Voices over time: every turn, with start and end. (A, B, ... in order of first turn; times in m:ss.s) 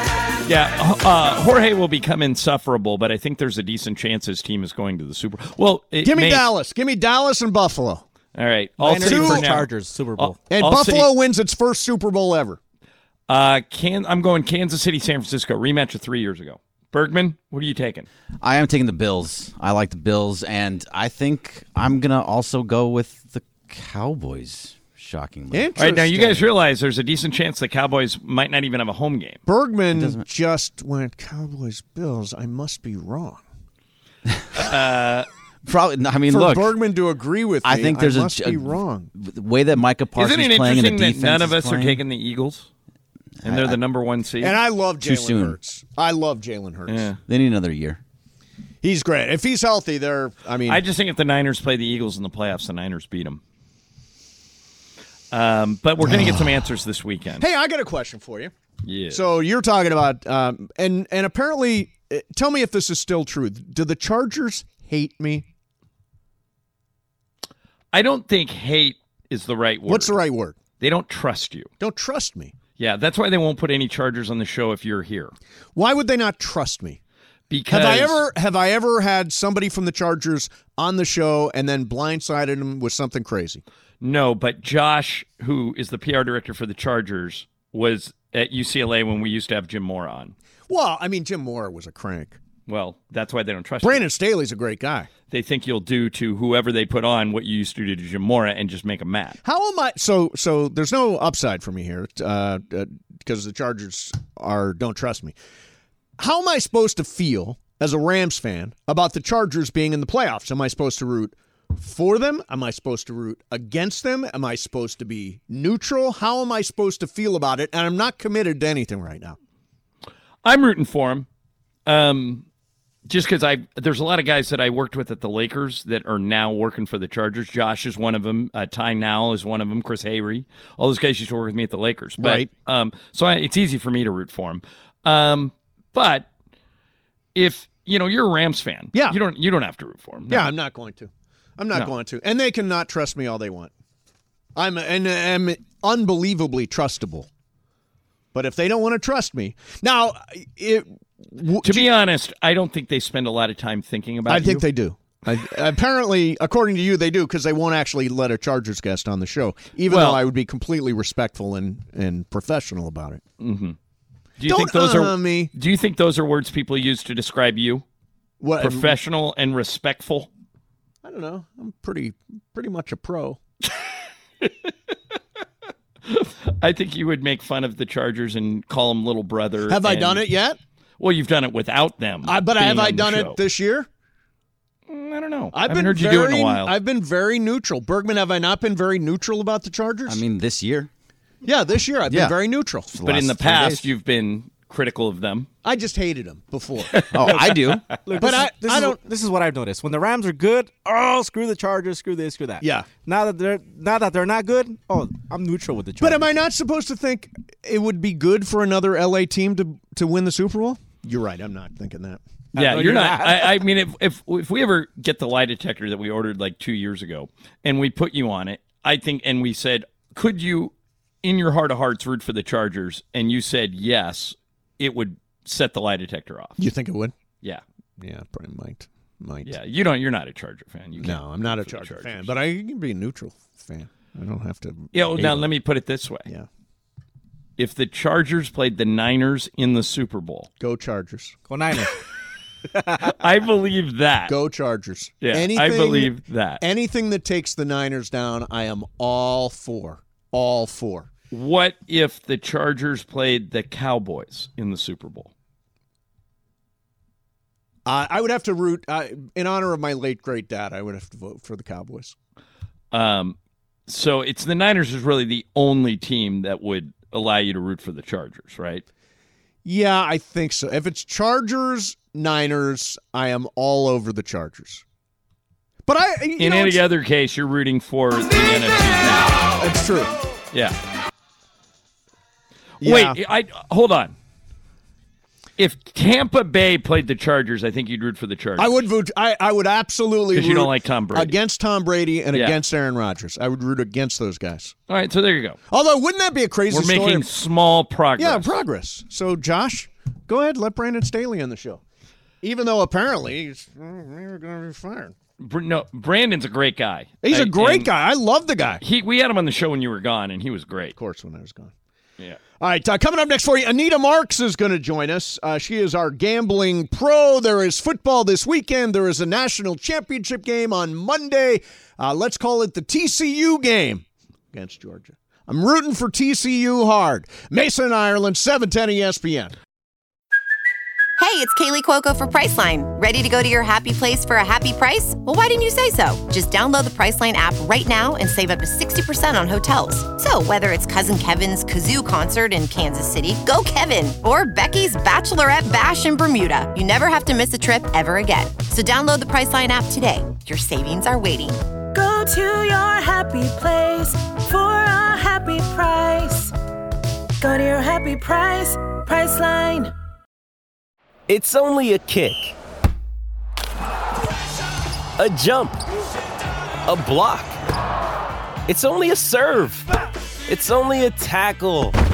0:00.5-0:06.5 A
0:06.0-0:08.0 B
0:08.4-0:11.1 A
0:08.8-0:10.4 C
0:09.0-0:09.5 B
0:10.5-0:12.6 B
0:13.3-0:18.1 A
0:18.4-0:25.8 D
0:25.5-0:26.4 B
0:25.8-0:29.4 A
0:29.5-0:33.4 B
0:29.9-0:30.3 D
0:34.6-0:35.3 A
0:35.7-0:36.8 D
0:36.3-0:39.1 B
0:37.6-0:42.0 D
0:40.2-0:42.7 A
0:43.4-0:43.8 D
0:43.4-0:44.6 A
0:44.4-0:47.1 B
0:45.0-0:45.6 D
0:46.9-0:47.2 A
0:47.3-0:48.0 D
0:48.8-0:50.8 B
0:50.7-0:53.4 A
0:55.3-0:57.4 A
0:56.0-0:56.5 B
0:57.4-0:58.5 B
0:58.8-0:59.2 A
0:59.1-1:05.5 B
1:07.9-1:10.2 A
1:09.9-1:10.6 B
1:10.8-1:11.7 A
1:11.8-1:12.5 B
1:12.8-1:15.4 A
1:15.8-1:17.0 B
1:17.5-1:18.2 A
1:17.7-1:23.6 B
1:24.0-1:30.3 A
1:30.7-1:32.4 B
1:32.7-1:34.0 A
1:33.8-1:35.1 B
1:35.3-1:39.4 A
1:39.4-1:45.4 B
1:46.2-1:59.4 B
2:00.4-2:01.3 A
2:01.9-2:02.4 A
2:03.1-2:16.3 A
2:12.2-2:12.5 B
2:17.4-2:20.5 A
2:20.3-2:23.7 B
2:24.6-2:27.3 B
2:28.3-2:31.9 B
2:31.6-2:34.6 A
2:34.3-2:43.2 B
2:39.9-2:40.3 A
2:43.4-2:43.8 A
2:44.4-2:47.8 A
2:44.5-2:45.5 B
2:48.4-2:49.0 B
2:48.6-2:50.3 A
2:51.0-2:53.4 B
2:56.1-3:00.3 A
2:59.7-3:00.6 B
3:01.0-3:03.4 A
3:02.3-3:03.9 B
3:04.9-3:06.8 A
3:05.5-3:10.2 B
3:10.1-3:10.9 D
3:11.4-3:12.9 B
3:12.1-3:12.4 D
3:12.9-3:13.9 D
3:13.0-3:15.5 A
3:15.6-3:17.1 B
3:17.1-3:17.9 D
3:17.3-3:26.4 C
3:18.2-3:19.0 B
3:22.6-3:22.9 B
3:26.0-3:32.2 B
3:32.5-3:33.6 C
3:32.6-3:46.6 A
3:46.6-3:47.1 B
3:48.0-3:49.6 B
3:49.4-3:52.3 A
3:51.0-3:55.5 B
3:54.9-3:56.3 A
3:57.6-4:00.5 A
4:00.6-4:01.4 B
4:01.5-4:01.9 C
4:03.1-4:04.3 A
4:04.3-4:11.1 B
4:05.2-4:06.6 A
4:11.3-4:15.3 A
4:17.9-4:22.2 B
4:22.9-4:23.4 A
4:23.9-4:28.8 A
4:29.6-4:34.8 B
4:35.9-4:36.8 B
4:36.4-4:39.4 A
4:39.6-4:40.2 B
4:42.8-4:43.2 B
4:42.8-4:44.1 A
4:45.6-4:48.7 A
4:48.6-4:54.8 B
4:50.3-4:51.4 A
4:52.3-4:52.6 A
4:54.9-4:55.6 A
4:55.7-4:57.2 B
4:56.7-4:58.6 A
4:58.2-5:01.8 B
5:02.4-5:05.2 B
5:05.4-5:07.9 A
5:07.2-5:08.8 B
5:08.8-5:11.0 A
5:11.0-5:11.7 B
5:12.6-5:29.5 B
5:31.2-5:51.6 E
5:51.9-5:56.5 F
5:57.4-5:59.9 F
6:01.3-6:02.6 G
6:05.2-6:05.8 G
6:06.9-6:07.6 G
6:08.7-6:09.9 G
6:10.5-6:12.0 G